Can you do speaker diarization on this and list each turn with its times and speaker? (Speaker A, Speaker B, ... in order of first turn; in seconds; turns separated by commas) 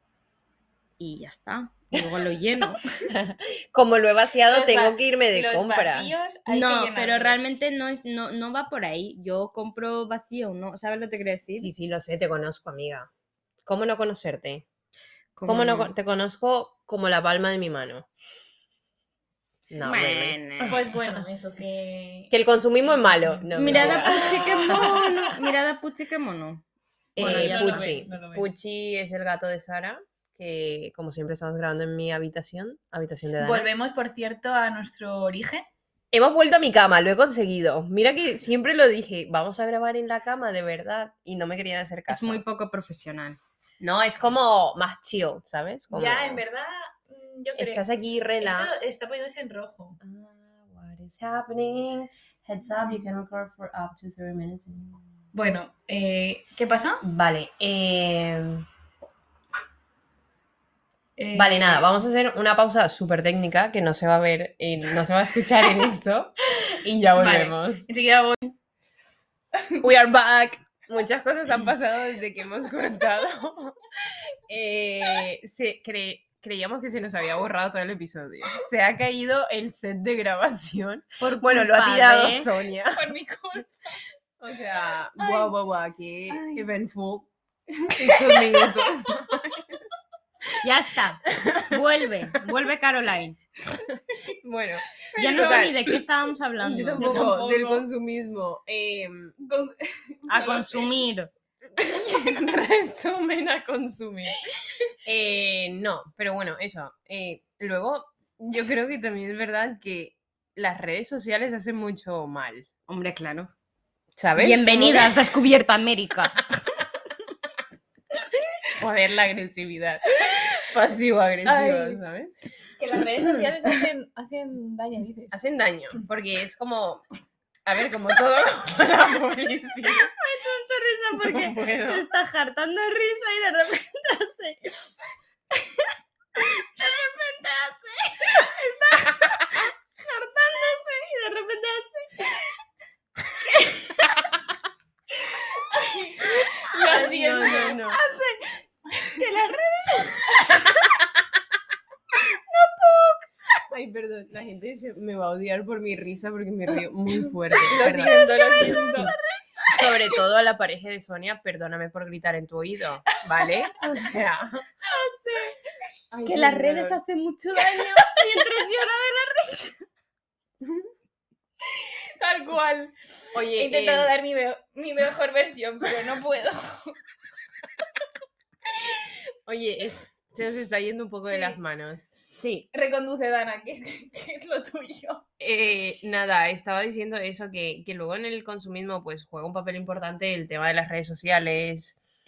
Speaker A: 1.0-2.8, Speaker B: 3.1-6.2, Speaker C: 4.5-7.4, Speaker A: 6.5-11.7, Speaker B: 11.5-13.1, Speaker B: 13.7-14.7, Speaker A: 15.3-15.9, Speaker B: 15.4-18.1, Speaker B: 19.7-21.2, Speaker A: 19.8-20.8, Speaker C: 20.6-25.2, Speaker B: 22.3-25.1, Speaker A: 23.5-26.6, Speaker B: 27.1-33.7, Speaker A: 27.2-28.0, Speaker C: 27.2-28.5, Speaker C: 33.4-35.7, Speaker B: 36.1-42.4, Speaker A: 42.1-43.4, Speaker B: 43.8-46.4, Speaker C: 45.9-47.8, Speaker B: 47.5-48.7, Speaker C: 48.4-50.0, Speaker B: 50.0-55.0, Speaker C: 55.3-57.0, Speaker B: 57.0-58.6, Speaker C: 61.2-61.9, Speaker B: 61.3-67.8, Speaker C: 67.1-68.5, Speaker B: 69.8-73.8, Speaker B: 74.5-83.1, Speaker A: 81.2-82.5, Speaker C: 82.9-84.0, Speaker B: 84.4-87.3, Speaker C: 85.1-85.5, Speaker C: 86.3-86.6, Speaker B: 87.8-89.8, Speaker C: 88.0-89.2, Speaker A: 90.6-93.4, Speaker B: 91.3-91.8, Speaker B: 93.8-96.0, Speaker C: 95.1-95.6, Speaker A: 95.2-97.2, Speaker B: 96.6-99.4, Speaker C: 97.0-97.8, Speaker C: 99.4-101.0, Speaker A: 100.3-101.3, Speaker B: 101.7-104.4, Speaker B: 105.0-112.7, Speaker A: 112.9-113.5, Speaker B: 114.2-115.2, Speaker A: 114.4-116.5, Speaker B: 118.8-122.3, Speaker C: 121.4-122.0, Speaker C: 122.8-125.4, Speaker B: 123.2-123.7, Speaker B: 125.3-127.0, Speaker B: 127.7-130.1, Speaker A: 129.9-134.9, Speaker B: 131.2-132.0, Speaker A: 136.3-142.5, Speaker A: 143.4-143.9, Speaker C: 145.2-147.8, Speaker B: 146.8-148.0, Speaker A: 147.7-150.7, Speaker A: 152.2-153.3, Speaker B: 153.7-159.1, Speaker A: 157.6-159.1, Speaker C: 157.6-159.1, Speaker B: 159.7-164.7, Speaker C: 163.3-163.8, Speaker A: 164.8-165.6, Speaker B: 166.1-167.0, Speaker A: 166.2-169.8, Speaker C: 171.7-177.0, Speaker B: 173.3-174.1, Speaker B: 179.5-182.1, Speaker C: 181.3-181.6, Speaker A: 182.3-182.7, Speaker C: 182.7-185.2, Speaker B: 185.4-192.0